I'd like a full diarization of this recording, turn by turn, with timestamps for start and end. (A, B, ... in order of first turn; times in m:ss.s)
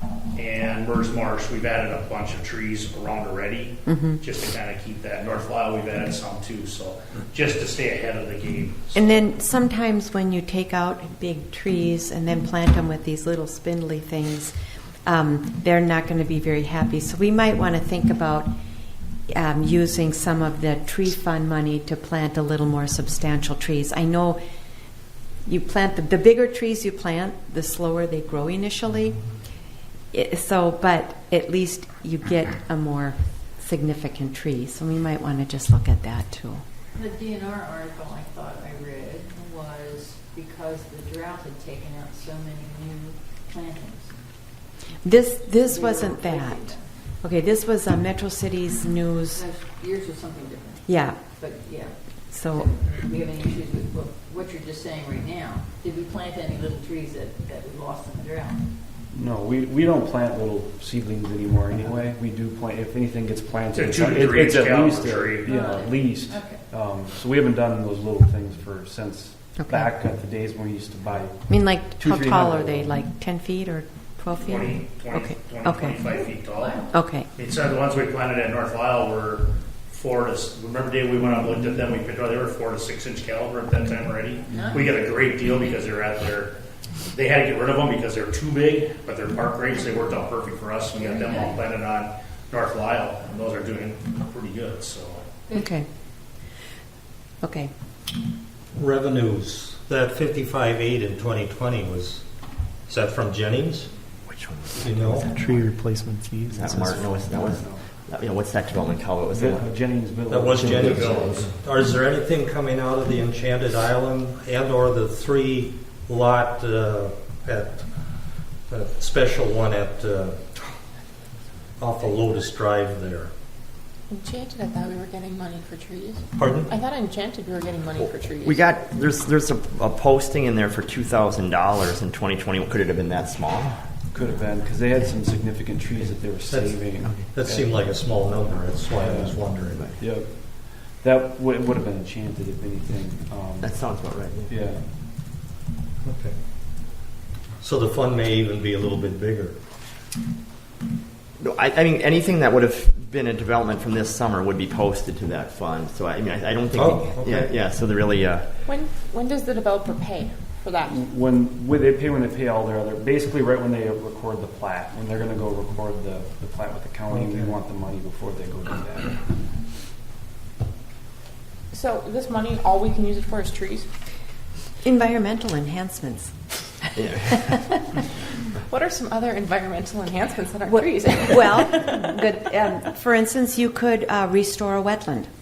0:00.3-0:09.2 A
0:03.9-0:04.2 B
0:08.9-0:14.5 B
0:15.0-0:18.5 B
0:19.3-0:24.4 B
0:25.4-0:29.3 B
0:30.1-0:36.6 B
0:36.9-0:44.2 C
0:45.0-0:49.5 B
0:45.4-0:46.9 C
0:49.3-0:58.7 C
0:50.8-0:51.3 B
0:52.3-0:52.7 B
0:59.1-1:13.0 D
1:03.7-1:05.5 A
1:05.4-1:06.6 C
1:09.6-1:09.9 B
1:11.5-1:16.0 B
1:14.4-1:26.6 A
1:16.4-1:16.8 C
1:16.9-1:17.3 B
1:27.1-1:35.3 A
1:31.0-1:31.6 C
1:35.5-1:35.9 B
1:37.4-1:37.7 B
1:38.7-1:42.3 E
1:42.8-1:43.9 E
1:44.2-1:45.7 F
1:44.8-1:45.3 E
1:46.5-1:49.8 F
1:46.8-1:47.9 D
1:49.3-1:51.5 D
1:50.3-2:00.7 E
1:50.6-1:51.6 F
2:01.8-2:03.3 E
2:04.1-2:08.6 G
2:06.4-2:06.7 E
2:07.9-2:13.8 F
2:14.1-2:17.9 D
2:16.0-2:19.9 E
2:18.9-2:23.9 D
2:19.5-2:20.0 F
2:23.6-2:24.6 F
2:24.5-2:24.9 D
2:26.0-2:26.4 E
2:27.6-2:29.6 E
2:31.4-2:38.5 F
2:36.7-2:37.5 E
2:38.6-2:41.0 G
2:40.8-2:49.3 D
2:47.1-2:47.5 E
2:51.7-2:53.9 G
2:54.8-2:57.8 B
2:57.0-2:57.4 F
2:58.7-3:01.6 G
3:00.7-3:05.3 B